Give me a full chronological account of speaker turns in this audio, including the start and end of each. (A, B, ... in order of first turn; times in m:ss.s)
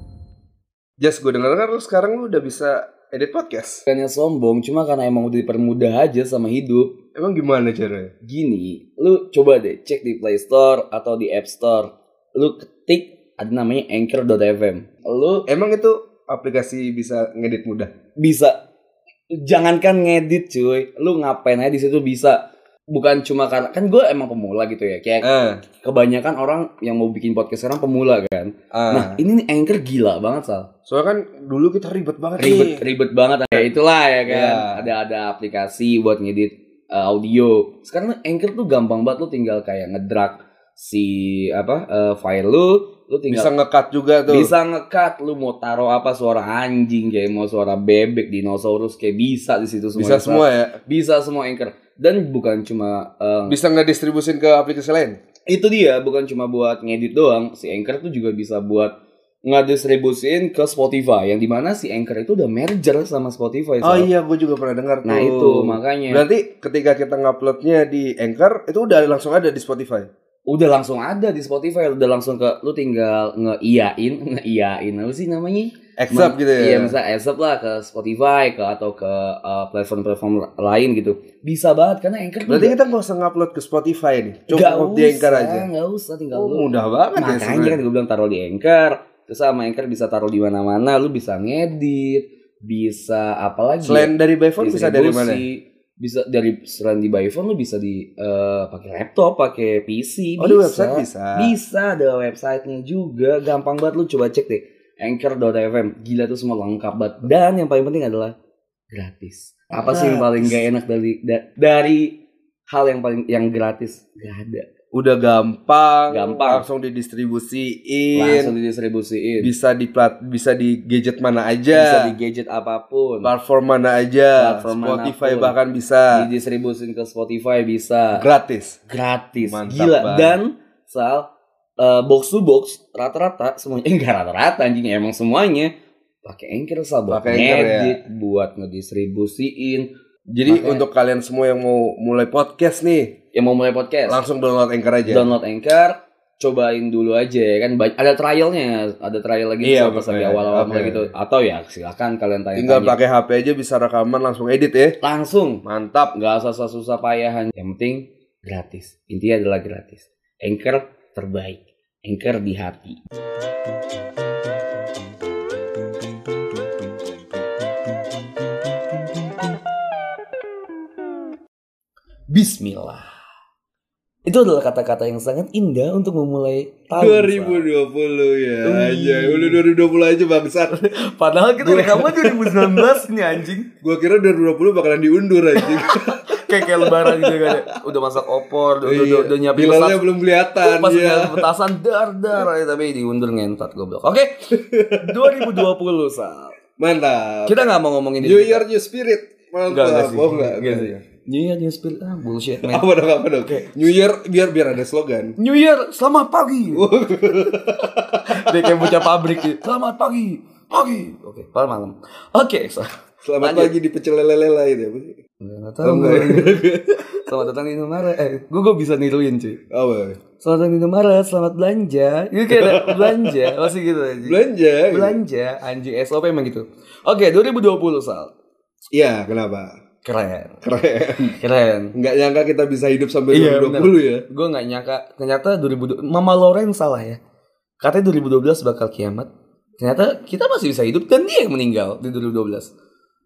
0:01.0-0:03.8 A
0:03.9-0:06.9 B
0:07.1-0:08.1 A
0:08.2-0:15.4 B
0:15.5-0:17.9 A
0:18.2-0:18.6 B
0:19.3-0:25.3 B
0:25.2-0:25.6 A
0:25.8-0:30.7 B
0:28.7-0:29.2 A
0:30.8-0:32.8 A
0:32.4-0:43.5 B
0:34.2-0:34.9 A
0:43.3-0:44.5 A
0:44.3-0:53.6 B
0:50.0-0:50.8 A
0:53.5-0:55.2 A
0:55.5-0:58.9 B
0:59.4-1:04.1 B
1:03.8-1:10.1 A
1:05.0-1:06.2 B
1:10.5-1:22.8 B
1:16.0-1:17.0 A
1:22.5-1:25.7 A
1:24.5-1:48.3 B
1:26.3-1:27.8 A
1:33.8-1:35.4 A
1:40.4-1:41.5 A
1:48.9-1:52.2 B
1:49.7-1:50.6 A
1:52.7-1:54.7 B
1:54.9-1:58.5 A
1:56.1-1:56.6 B
1:58.1-1:59.5 B
1:59.4-2:02.1 A
2:01.7-2:03.3 B
2:03.2-2:06.3 A
2:04.4-2:05.5 B
2:06.1-2:08.2 B
2:08.2-2:08.8 A
2:08.9-2:11.3 B
2:09.4-2:10.4 A
2:11.8-2:15.7 B
2:16.2-2:19.9 B
2:17.1-2:18.0 A
2:20.3-2:23.1 A
2:20.4-2:20.8 B
2:23.3-2:24.2 B
2:24.1-2:25.3 A
2:25.1-2:33.0 B
2:29.6-2:31.1 A
2:32.5-2:35.0 A
2:35.0-2:43.0 B
2:35.6-2:36.2 A
2:52.3-2:53.1 B
2:54.2-2:57.7 B
2:56.9-3:00.7 A
2:58.6-2:59.6 B
3:00.7-3:03.7 B
3:01.6-3:03.0 A
3:03.8-3:07.6 A
3:05.6-3:10.0 B
3:08.8-3:11.5 A
3:10.6-3:16.6 B
3:14.5-3:15.6 A
3:16.8-3:17.7 A
3:17.4-3:18.6 B
3:18.2-3:21.0 A
3:19.7-3:22.8 B
3:22.6-3:25.3 A
3:25.4-3:26.9 B
3:26.7-3:29.2 A
3:28.3-3:33.7 B
3:33.2-3:35.2 A
3:35.4-3:39.6 B
3:35.8-3:37.2 A
3:39.7-3:40.2 A
3:40.4-3:48.3 B
3:42.5-3:43.7 A
3:44.2-3:45.2 A
3:48.9-3:49.7 A
3:50.0-3:50.6 B
3:50.6-3:51.3 A
3:51.4-3:51.9 B
3:51.9-3:54.2 A
3:53.3-3:57.2 B
3:57.8-4:02.7 B